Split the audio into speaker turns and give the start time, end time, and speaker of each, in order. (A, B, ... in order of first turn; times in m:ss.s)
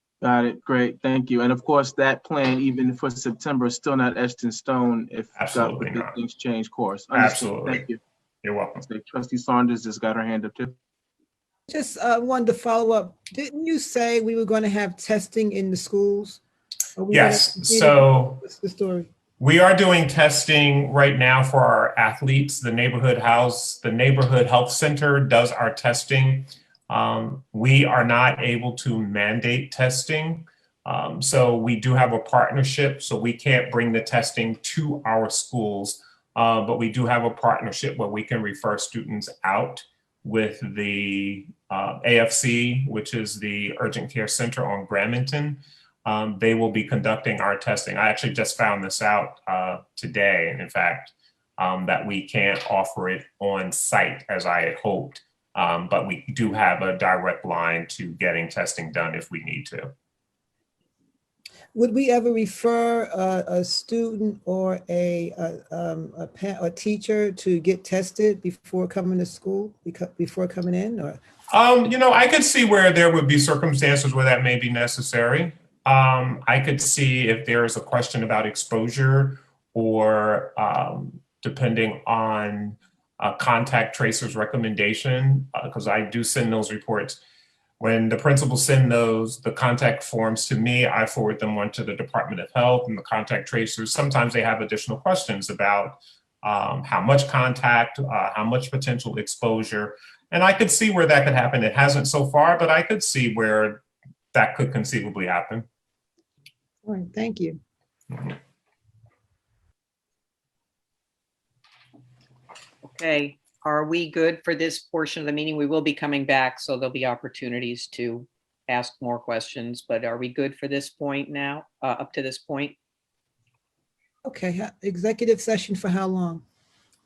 0:00.2-0:08.0 A
0:05.4-0:06.1 B
0:07.1-0:07.8 B
0:08.4-0:08.8 B
0:08.8-0:10.8 A
0:11.7-0:16.4 C
0:17.0-0:19.1 C
0:17.1-0:18.4 B
0:19.4-0:59.9 B
1:01.7-1:11.2 C
1:11.5-1:27.2 B
1:27.8-1:45.6 B
1:46.8-1:47.6 C
1:52.8-2:02.7 D
2:04.2-2:06.4 C